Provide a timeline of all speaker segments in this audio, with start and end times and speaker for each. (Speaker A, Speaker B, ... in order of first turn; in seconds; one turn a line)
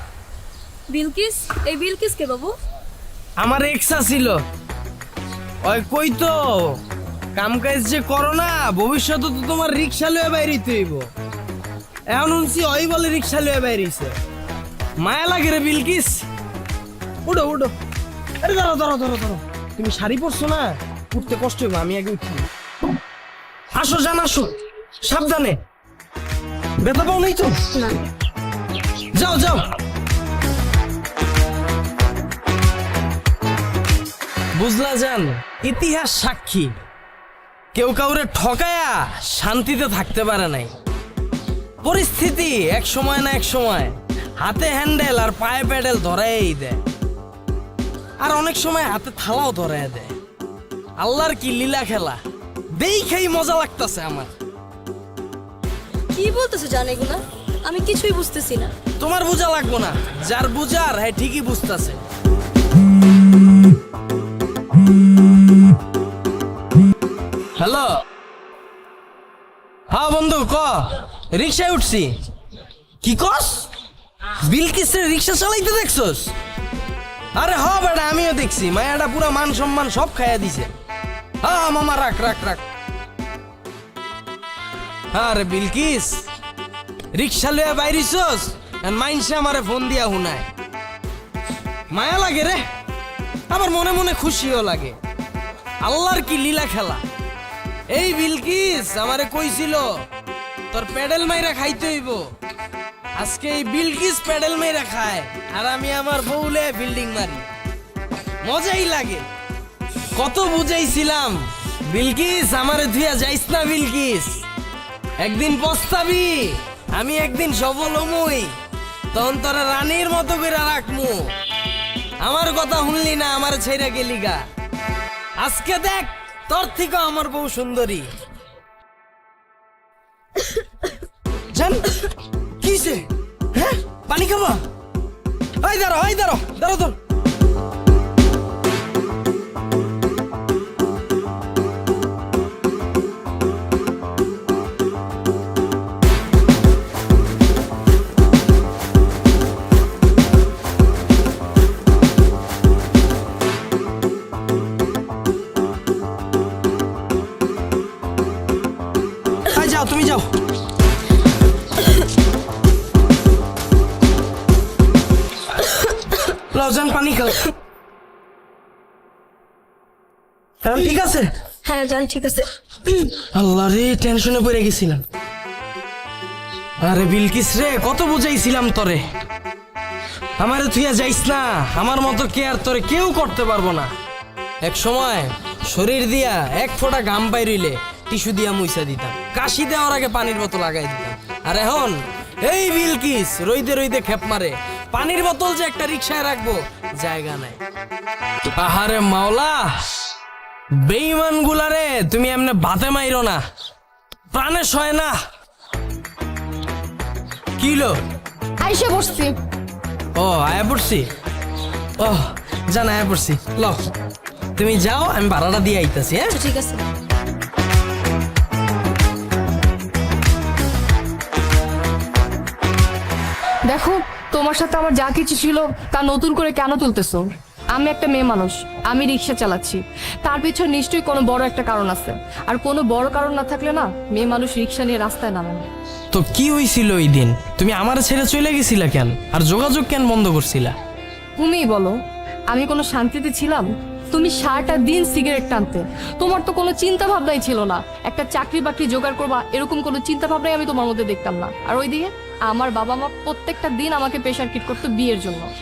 Speaker A: 0.9-2.6
Speaker B: 3.4-4.4
Speaker B: 5.6-6.8
Speaker B: 7.3-11.1
Speaker B: 12.1-14.2
Speaker B: 15.0-16.3
Speaker B: 17.2-17.7
Speaker B: 18.4-22.5
Speaker B: 23.7-25.6
Speaker B: 26.8-27.7
Speaker B: 29.1-29.6
Speaker B: 34.5-36.8
Speaker B: 37.7-40.7
Speaker B: 41.8-46.8
Speaker B: 48.2-50.1
Speaker B: 51.0-52.2
Speaker B: 52.8-54.3
Speaker A: 56.1-58.7
Speaker B: 59.0-62.0
Speaker B: 67.6-67.9
Speaker B: 69.9-72.2
Speaker B: 73.0-73.7
Speaker B: 74.4-76.3
Speaker B: 77.3-80.7
Speaker B: 81.4-82.6
Speaker B: 85.1-86.3
Speaker B: 87.1-90.5
Speaker B: 91.9-92.6
Speaker B: 93.5-95.0
Speaker B: 95.8-97.0
Speaker B: 97.9-100.0
Speaker B: 100.7-102.3
Speaker B: 103.2-107.5
Speaker B: 108.4-109.3
Speaker B: 110.2-114.4
Speaker B: 115.2-118.5
Speaker B: 119.1-121.3
Speaker B: 122.2-124.4
Speaker B: 125.4-128.1
Speaker B: 131.5-132.1
Speaker B: 132.6-134.6
Speaker B: 135.6-137.0
Speaker B: 159.5-160.3
Speaker B: 166.5-167.5
Speaker B: 170.6-171.3
Speaker A: 171.7-172.5
Speaker B: 172.9-175.0
Speaker B: 176.8-179.1
Speaker B: 180.4-183.9
Speaker B: 184.6-197.6
Speaker B: 198.6-199.9
Speaker B: 200.7-203.4
Speaker B: 204.3-205.2
Speaker B: 207.6-208.0
Speaker C: 208.6-209.3
Speaker B: 210.2-211.1
Speaker B: 212.0-213.9
Speaker B: 214.6-216.4
Speaker A: 216.3-216.8
Speaker C: 223.7-235.7
Speaker B: 236.1-240.8
Speaker C: 241.4-242.0
Speaker C: 242.5-255.5